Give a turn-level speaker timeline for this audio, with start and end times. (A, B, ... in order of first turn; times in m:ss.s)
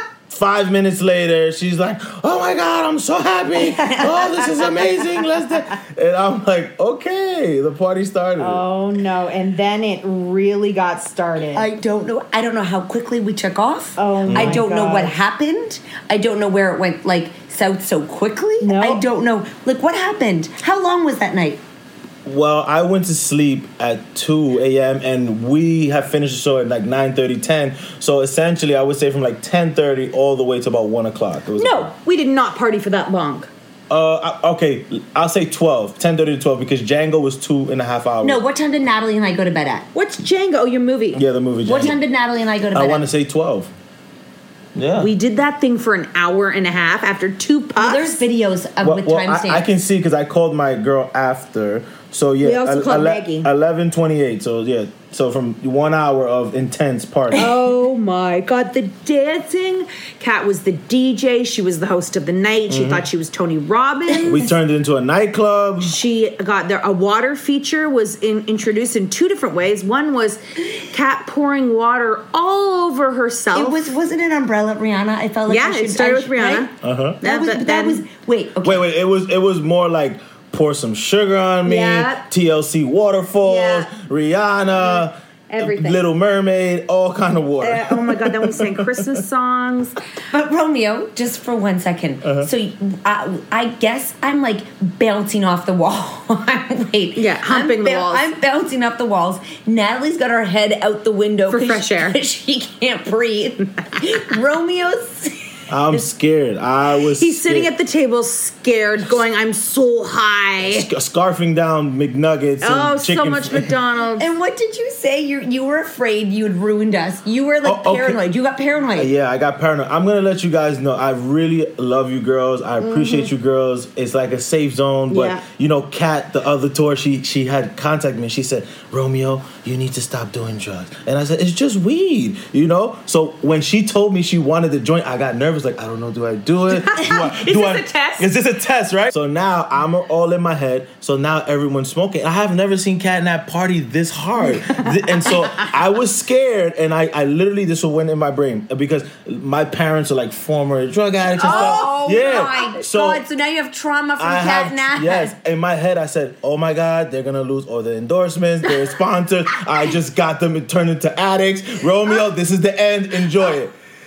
0:00.3-0:08.7 A
0:03.6-0:04.8 B
0:08.4-0:11.7 C
0:11.5-0:21.6 B
0:14.0-0:15.2 C
0:14.3-0:14.6 A
0:18.6-0:19.0 C
0:22.2-0:31.9 A
0:31.6-0:33.5 C
0:33.9-0:38.4 A
0:38.2-0:39.9 B
0:39.9-0:41.2 C
0:41.1-0:42.0 A
0:41.6-0:43.1 B
0:42.7-0:43.7 A
0:44.8-0:45.1 A
0:45.0-0:48.2 C
0:47.8-0:49.7 B
0:48.8-0:57.5 A
0:52.4-0:53.5 C
0:57.4-1:04.5 C
1:02.7-1:03.1 A
1:04.2-1:06.0 A
1:05.8-1:13.8 C
1:13.5-1:18.9 B
1:15.5-1:18.0 C
1:16.8-1:17.2 A
1:18.6-1:29.0 A
1:21.6-1:22.3 C
1:23.4-1:23.9 C
1:24.8-1:26.0 C
1:27.6-1:30.0 C
1:30.3-1:45.4 B
1:32.2-1:32.5 A
1:37.2-1:38.3 C
1:41.5-1:42.2 C
1:45.7-1:47.7 A
1:47.2-1:50.9 C
1:50.6-1:53.7 A
1:52.6-1:54.3 C
1:54.2-1:59.1 B
1:57.6-1:58.2 A
1:59.0-2:33.2 A
2:02.8-2:03.3 C
2:05.1-2:05.4 C
2:16.9-2:18.2 C
2:24.4-2:25.7 C
2:31.4-2:35.4 B
2:31.4-2:31.9 C
2:34.2-2:43.7 A